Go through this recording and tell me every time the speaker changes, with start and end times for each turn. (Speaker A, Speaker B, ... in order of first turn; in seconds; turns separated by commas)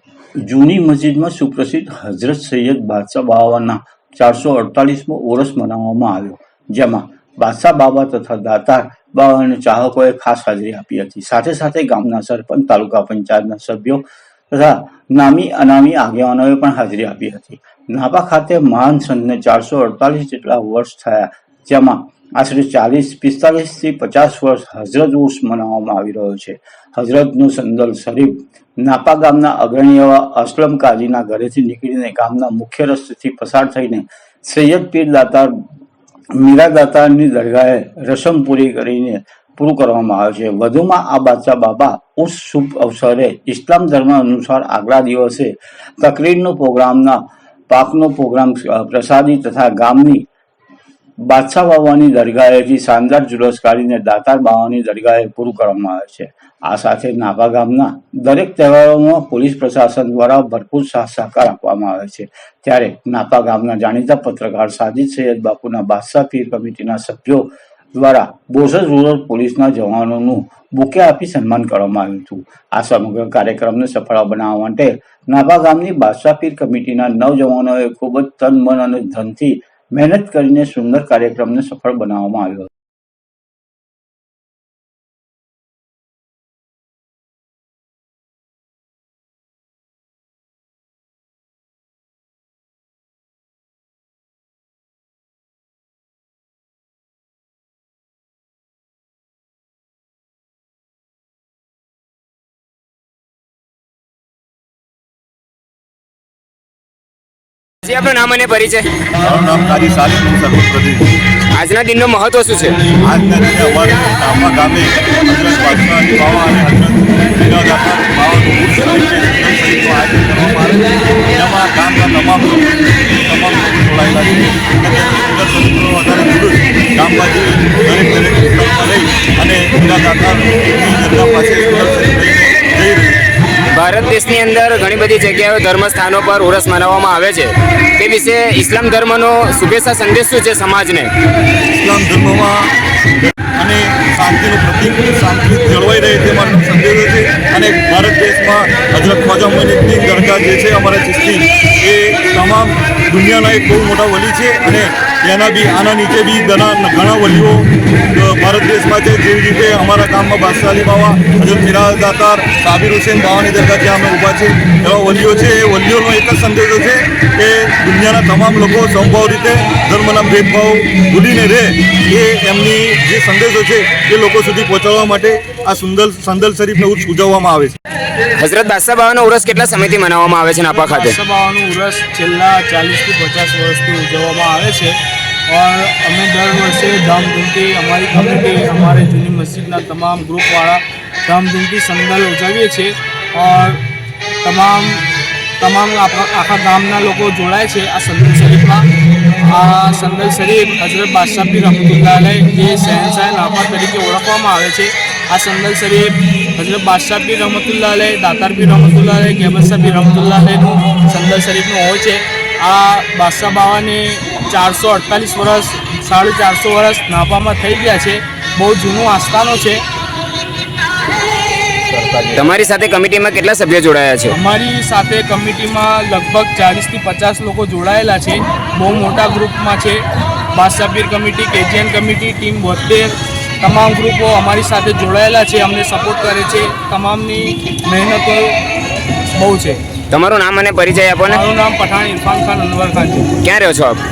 Speaker A: 0.4-35.5, Speaker A: 36.3-50.3, Speaker A: 51.2-82.7, Speaker B: 107.8-108.9, Speaker C: 109.2-111.0, Speaker B: 111.5-112.8, Speaker C: 113.0-133.2, Speaker B: 133.7-141.1, Speaker C: 141.7-142.7, Speaker C: 143.6-177.8, Speaker B: 178.4-181.2, Speaker D: 180.7-185.0, Speaker D: 185.5-193.8, Speaker D: 194.4-195.1, Speaker D: 195.6-198.8, Speaker D: 199.4-219.8, Speaker B: 221.9-224.3, Speaker D: 224.3-230.0, Speaker D: 230.5-238.6, Speaker D: 239.3-239.8, Speaker B: 240.1-241.4, Speaker D: 241.3-243.3, Speaker B: 243.4-244.0